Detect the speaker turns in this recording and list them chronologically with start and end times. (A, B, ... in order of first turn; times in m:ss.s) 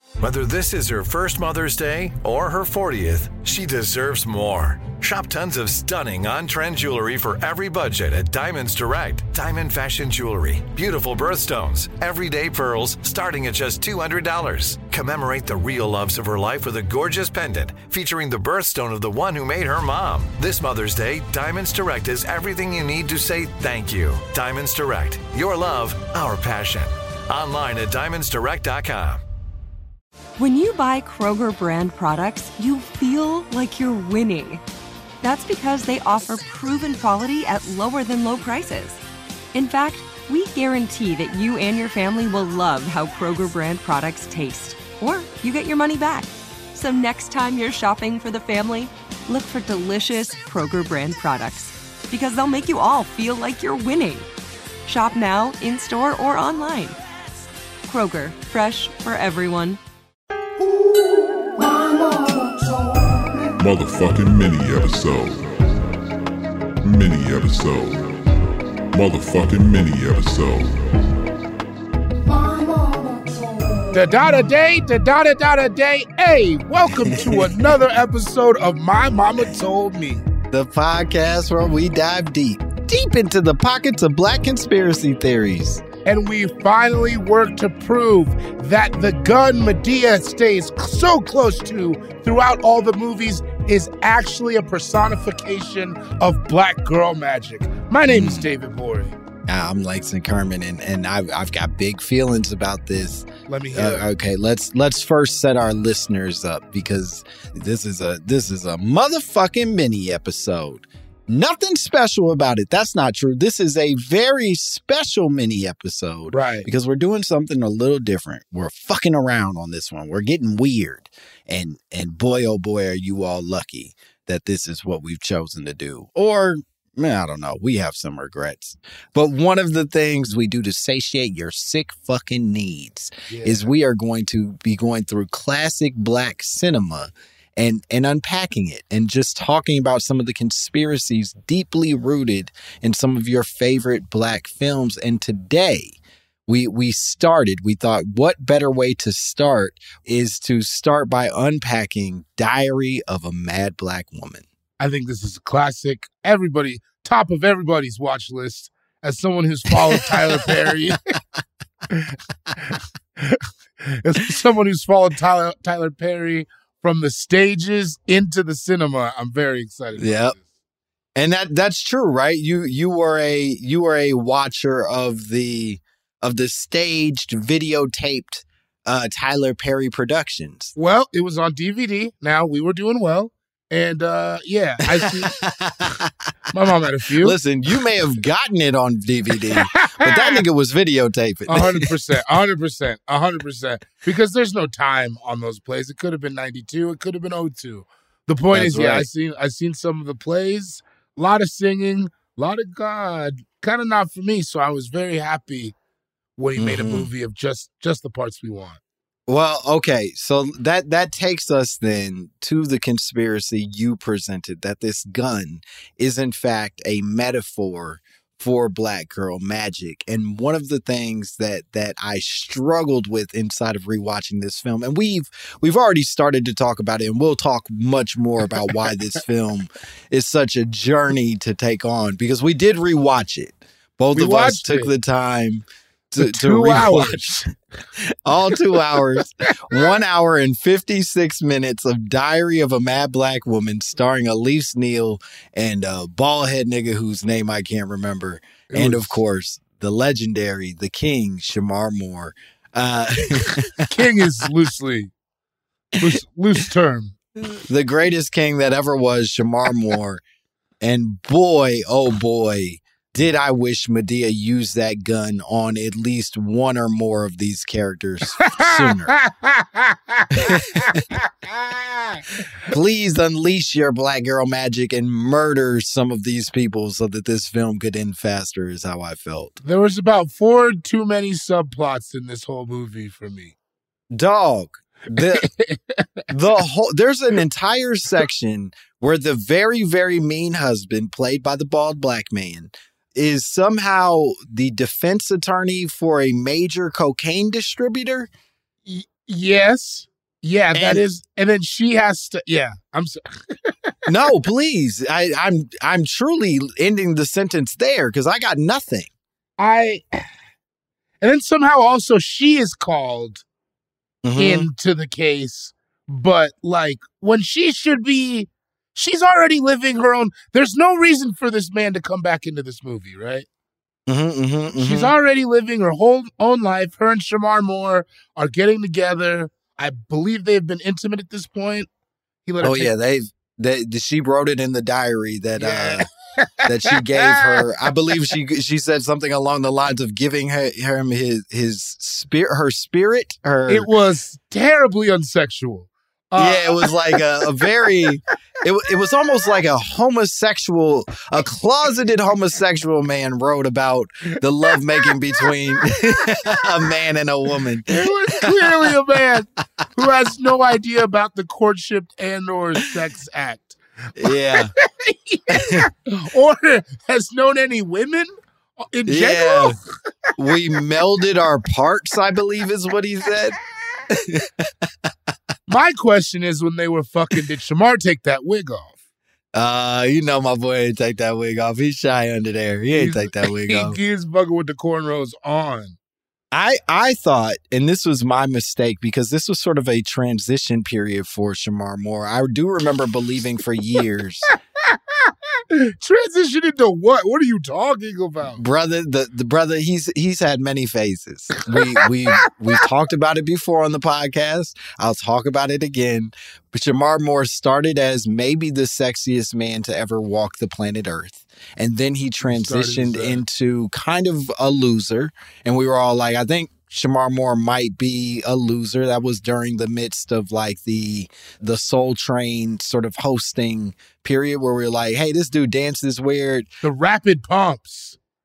0:00.2-0:29.2 A
0:30.4-0:34.6 B
0:35.2-0:39.0 B
0:39.5-0:54.3 B
0:54.9-0:57.0 B
0:57.9-0:59.8 B
1:03.6-1:05.5 C
1:06.8-1:08.1 C
1:08.9-1:10.8 C
1:13.9-1:20.2 D
1:17.0-1:17.7 E
1:20.5-1:25.8 E
1:26.0-1:39.2 D
1:38.0-1:38.5 E
1:39.5-2:34.4 E
1:43.5-1:44.0 D
1:56.3-1:56.7 D
2:13.3-2:13.7 D
2:34.8-2:41.0 D
2:41.9-2:50.4 D
2:50.0-2:50.4 E
2:51.2-3:00.7 E
3:00.8-3:05.3 D
3:04.9-3:06.1 E
3:06.5-3:07.4 D
3:07.2-3:11.9 E
3:09.5-3:10.4 D
3:11.5-3:25.7 D
3:18.5-3:19.1 E
3:26.4-3:28.8 D
3:26.6-3:27.1 E
3:29.3-3:57.4 E
3:54.1-3:54.9 D
3:56.2-3:57.4 D
3:58.2-4:14.2 E
3:58.7-3:59.2 D
4:08.7-4:09.2 D
4:13.9-4:15.1 D
4:16.0-4:17.2 D
4:17.7-4:20.2 E
4:20.8-4:29.1 E
4:28.4-4:32.4 D
4:30.3-4:31.0 E
4:32.7-4:39.5 E
4:39.6-4:43.5 D
4:44.1-4:45.5 E
4:45.2-4:46.1 D
4:46.3-4:58.3 E
4:58.8-5:03.9 D
5:00.7-5:01.0 E
5:04.1-5:09.1 E
5:09.6-5:10.0 D
5:11.2-5:13.4 D
5:14.2-5:14.7 E
5:14.4-5:23.4 D
5:24.1-5:25.1 E
5:24.8-5:31.9 D
5:32.4-5:32.9 D
5:32.6-5:36.1 E
5:35.6-5:37.7 D
5:36.6-5:43.9 E
5:43.7-5:48.2 D
5:46.4-5:59.0 E
5:57.9-6:08.3 D
6:04.2-6:04.7 E
6:05.5-6:05.8 E
6:08.8-6:09.8 D
6:09.1-6:09.8 E
6:10.4-6:13.6 E
6:14.1-6:14.7 E
6:15.7-6:19.0 D
6:19.5-6:24.0 E
6:22.9-6:26.0 D
6:26.5-6:34.5 E
6:34.9-6:38.6 D
6:38.5-7:06.7 E
6:52.5-6:53.4 D
7:06.8-7:08.2 D